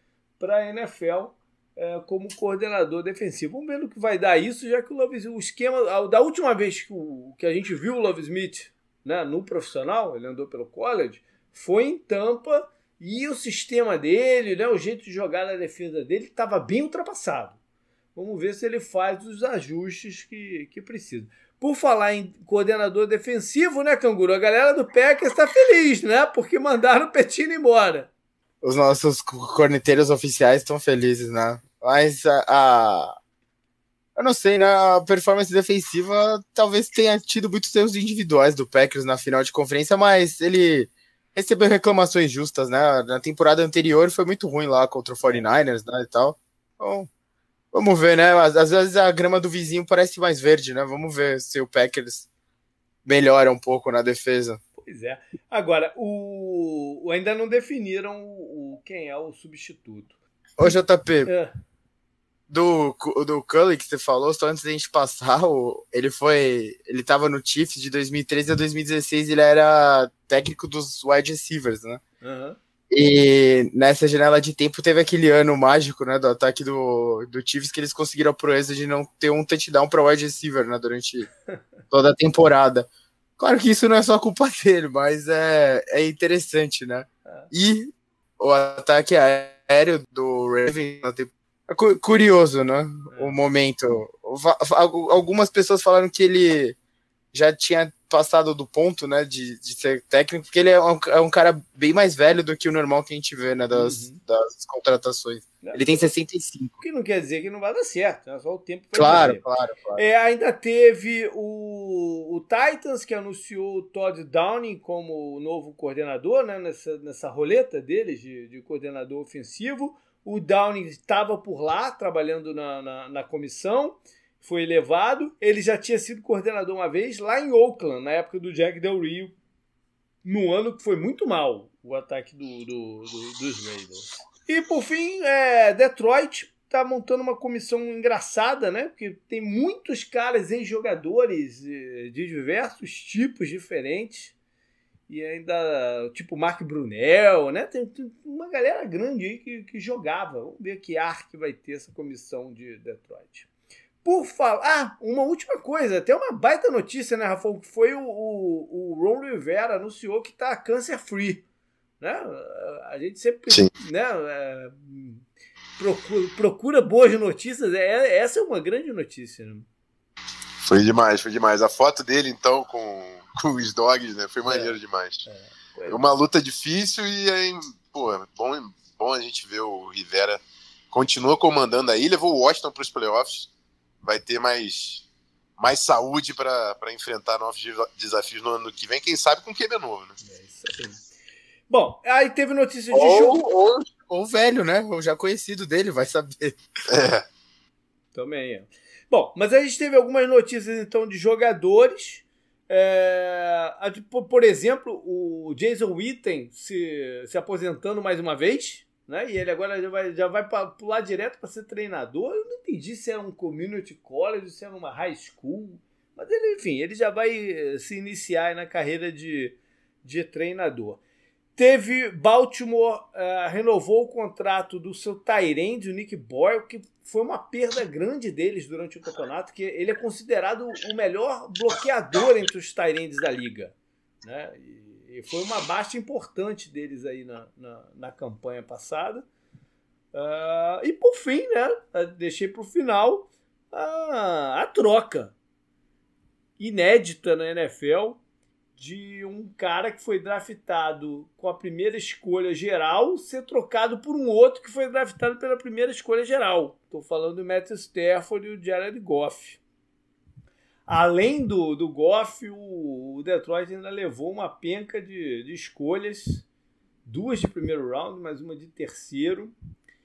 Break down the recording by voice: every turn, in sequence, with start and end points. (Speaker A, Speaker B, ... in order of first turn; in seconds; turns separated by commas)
Speaker A: 0.4-17.6, Speaker A: 18.1-28.1, Speaker B: 28.6-33.1, Speaker B: 34.2-47.1, Speaker B: 47.7-52.3, Speaker B: 53.0-54.6, Speaker A: 54.8-60.1, Speaker B: 60.6-61.3, Speaker A: 61.3-61.5, Speaker B: 62.5-72.0, Speaker A: 72.2-72.6, Speaker B: 72.9-81.3, Speaker B: 81.9-82.9, Speaker B: 83.4-96.8, Speaker A: 87.3-87.5, Speaker A: 93.1-93.4, Speaker B: 97.3-106.8, Speaker A: 103.7-104.2, Speaker A: 105.6-106.1, Speaker A: 106.8-109.4, Speaker B: 109.0-110.0, Speaker A: 110.0-129.3, Speaker A: 130.2-144.3, Speaker A: 145.1-153.5, Speaker A: 154.0-161.4, Speaker A: 162.0-165.2, Speaker A: 165.8-169.7, Speaker C: 170.7-175.3, Speaker A: 174.5-176.0, Speaker C: 175.9-180.4, Speaker C: 180.9-183.5, Speaker C: 184.0-185.1, Speaker C: 185.6-190.2, Speaker A: 190.2-191.0, Speaker A: 191.7-193.4, Speaker B: 192.9-196.6, Speaker C: 196.9-197.2, Speaker A: 198.1-221.0, Speaker A: 221.6-239.2, Speaker A: 240.1-245.3, Speaker A: 246.6-248.2, Speaker A: 248.8-259.6, Speaker A: 260.9-266.4, Speaker A: 267.1-269.5